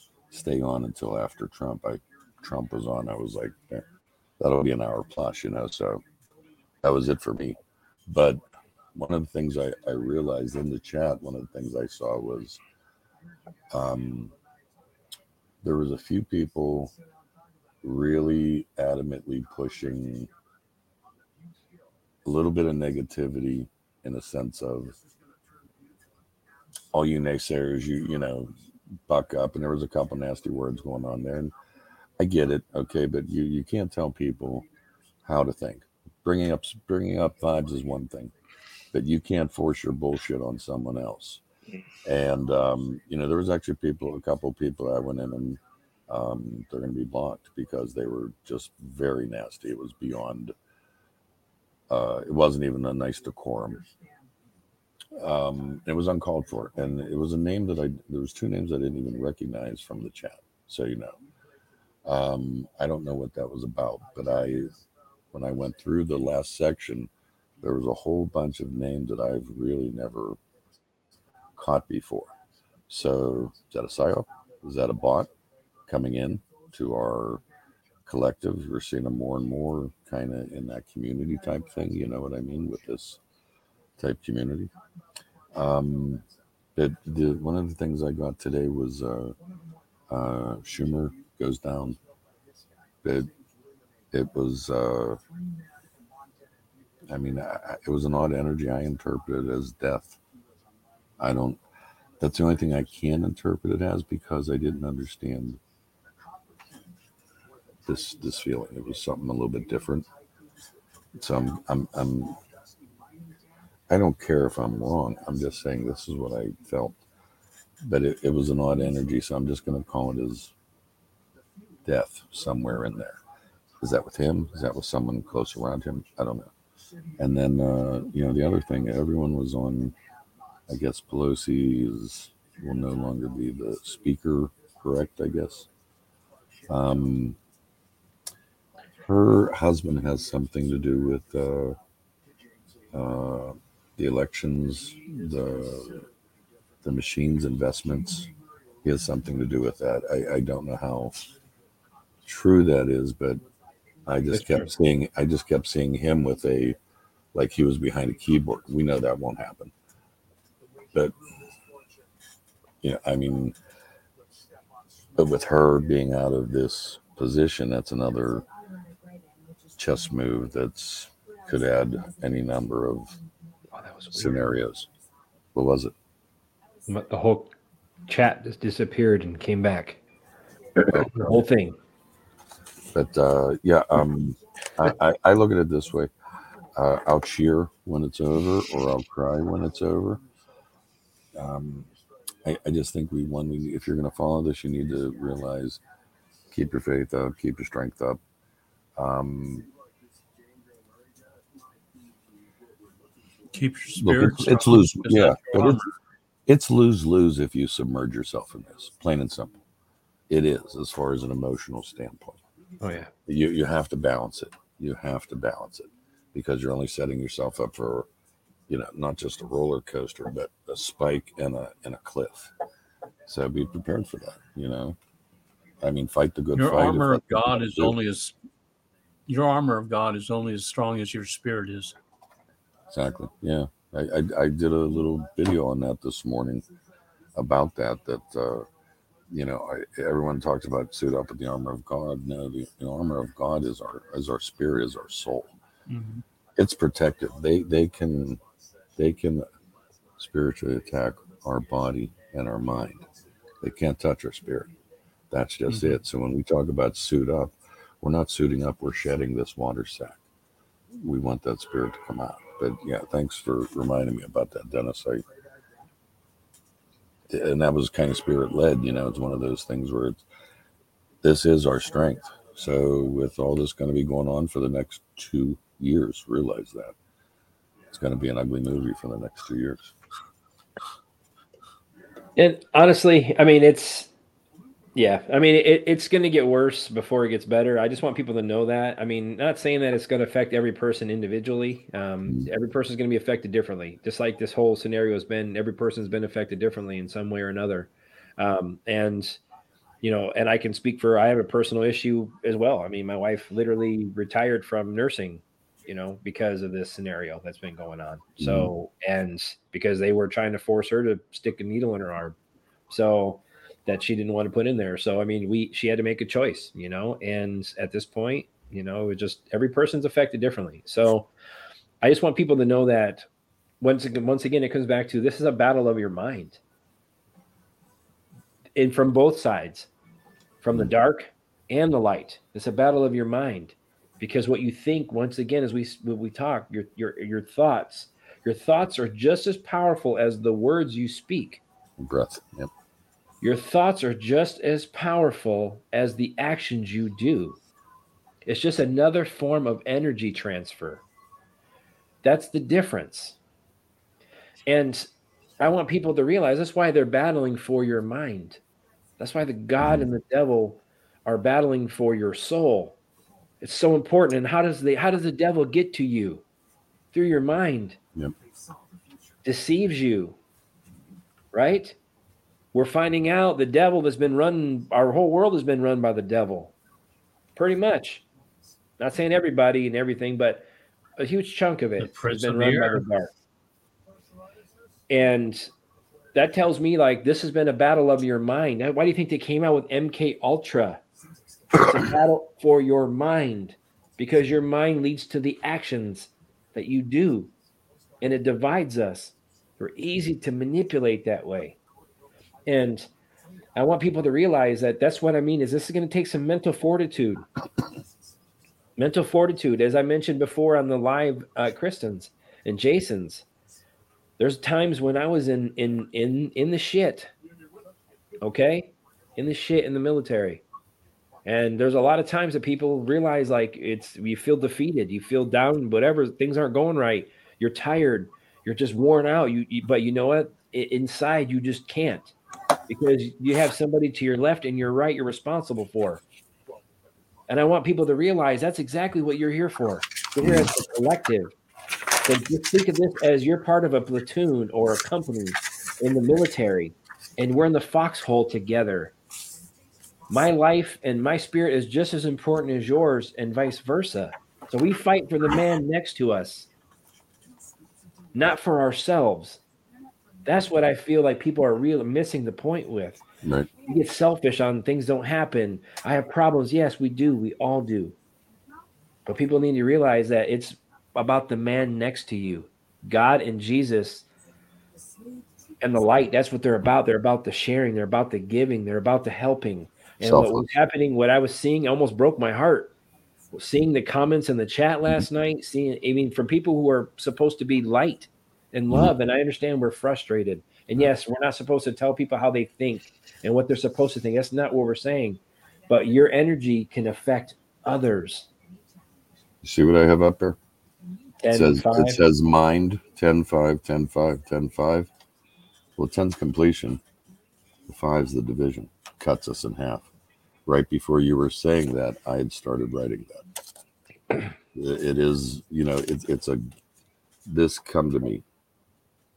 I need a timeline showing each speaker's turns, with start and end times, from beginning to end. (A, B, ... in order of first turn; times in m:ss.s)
0:00.3-0:03.9 A
0:04.4-0:06.0 A
0:06.8-0:08.4 A
0:08.9-0:12.6 A
0:13.7-0:14.3 A
0:15.6-0:16.9 A
0:17.8-0:20.3 A
0:22.2-0:25.0 A
0:26.9-0:28.5 A
0:29.1-0:31.5 A
0:32.2-0:34.7 A
0:35.2-0:38.3 A
0:38.9-0:41.4 A
0:42.0-0:50.5 A
0:51.9-0:53.9 A
0:55.2-1:01.2 A
1:02.0-1:04.8 A
1:05.3-1:07.1 A
1:07.6-1:10.4 A
1:11.6-1:12.3 A
1:12.9-1:15.3 A
1:15.9-1:17.4 A
1:18.0-1:23.2 A
1:24.0-1:24.7 A
1:25.5-1:26.2 A
1:26.8-1:29.4 A
1:30.1-1:32.0 A
1:33.0-1:33.3 A
1:34.1-1:35.2 A
1:37.0-1:40.2 A
1:41.2-1:41.6 A
1:42.2-1:45.6 A
1:47.8-1:50.1 A
1:51.1-1:52.4 A
1:53.9-1:57.0 A
1:57.8-2:00.5 A
2:01.8-2:03.2 A
2:03.8-2:06.5 A
2:07.2-2:10.0 A
2:10.7-2:15.7 A
2:16.7-2:17.4 A
2:19.0-2:21.8 A
2:22.9-2:26.1 A
2:26.8-2:28.3 A
2:28.8-2:31.3 A
2:32.2-2:33.4 A
2:34.0-2:36.8 A
2:34.3-2:34.7 B
2:37.3-2:39.7 A
2:42.8-2:43.6 A
2:45.2-2:48.4 A
2:49.8-2:53.2 A
2:53.7-2:54.4 B
2:54.1-2:54.9 A
2:55.5-2:55.9 A
2:56.9-2:57.5 B
2:58.1-3:00.0 B
3:00.8-3:01.8 B
3:00.9-3:01.4 A
3:02.9-3:06.1 A
3:06.8-3:10.2 A
3:11.4-3:11.9 A
3:12.4-3:15.8 A
3:16.5-3:18.2 A
3:19.0-3:19.7 A
3:23.5-3:25.9 C
3:24.0-3:25.9 A
3:26.5-3:29.6 A
3:30.3-3:32.4 A
3:32.8-3:33.1 B
3:33.2-3:38.1 A
3:38.7-3:42.5 A
3:43.3-3:45.0 A
3:45.8-3:48.0 A
3:46.5-3:48.3 C
3:49.3-3:52.0 C
3:52.9-3:56.6 A
3:57.3-3:58.7 A
3:59.3-4:05.6 A
4:05.9-4:06.2 C
4:06.6-4:08.4 A
4:09.0-4:09.4 A
4:10.2-4:14.7 A
4:15.3-4:20.2 A
4:15.7-4:16.0 C
4:21.0-4:25.2 A
4:27.3-4:30.2 A
4:31.2-4:37.0 A
4:37.9-4:39.9 A
4:42.4-4:44.1 B
4:44.9-4:59.4 B
5:00.0-5:12.4 B
5:08.4-5:08.7 A
5:12.9-5:21.3 B
5:22.0-5:23.3 B
5:23.8-5:26.6 B
5:28.8-5:29.9 B
5:30.6-5:41.6 B
5:42.0-5:42.7 A
5:43.4-5:47.6 B
5:48.4-5:51.0 B
5:52.2-5:53.4 B
5:54.7-5:58.6 B
5:59.2-6:03.0 B
6:03.6-6:06.4 B
6:07.1-6:08.0 B
6:09.4-6:10.4 B
6:11.5-6:12.0 B
6:12.7-6:16.7 B
6:17.6-6:18.2 B
6:19.0-6:20.7 B
6:21.2-6:23.3 B
6:22.0-6:23.0 C
6:25.1-6:25.7 B
6:26.3-6:31.0 B
6:31.7-6:37.5 B
6:38.2-6:41.8 B
6:42.6-6:43.1 B
6:43.8-6:47.4 B
6:49.0-6:53.4 B
6:54.4-6:57.3 B
6:58.4-7:00.6 B
7:01.4-7:12.3 B
7:12.9-7:16.2 B
7:17.5-7:21.5 B
7:20.4-7:20.7 A
7:22.2-7:29.1 B
7:30.3-7:36.7 B
7:38.3-7:39.6 B
7:40.4-7:43.2 B
7:43.4-7:43.7 A
7:43.8-7:48.2 B
7:49.2-7:54.2 B
7:55.8-8:02.9 B
8:00.2-8:00.7 A
8:03.5-8:18.5 B
8:19.6-8:20.6 A
8:21.4-8:22.2 B
8:21.5-8:25.1 A
8:26.0-8:27.0 A
8:27.9-8:30.1 A
8:30.6-8:33.5 A
8:34.7-8:36.6 A
8:37.4-8:38.4 A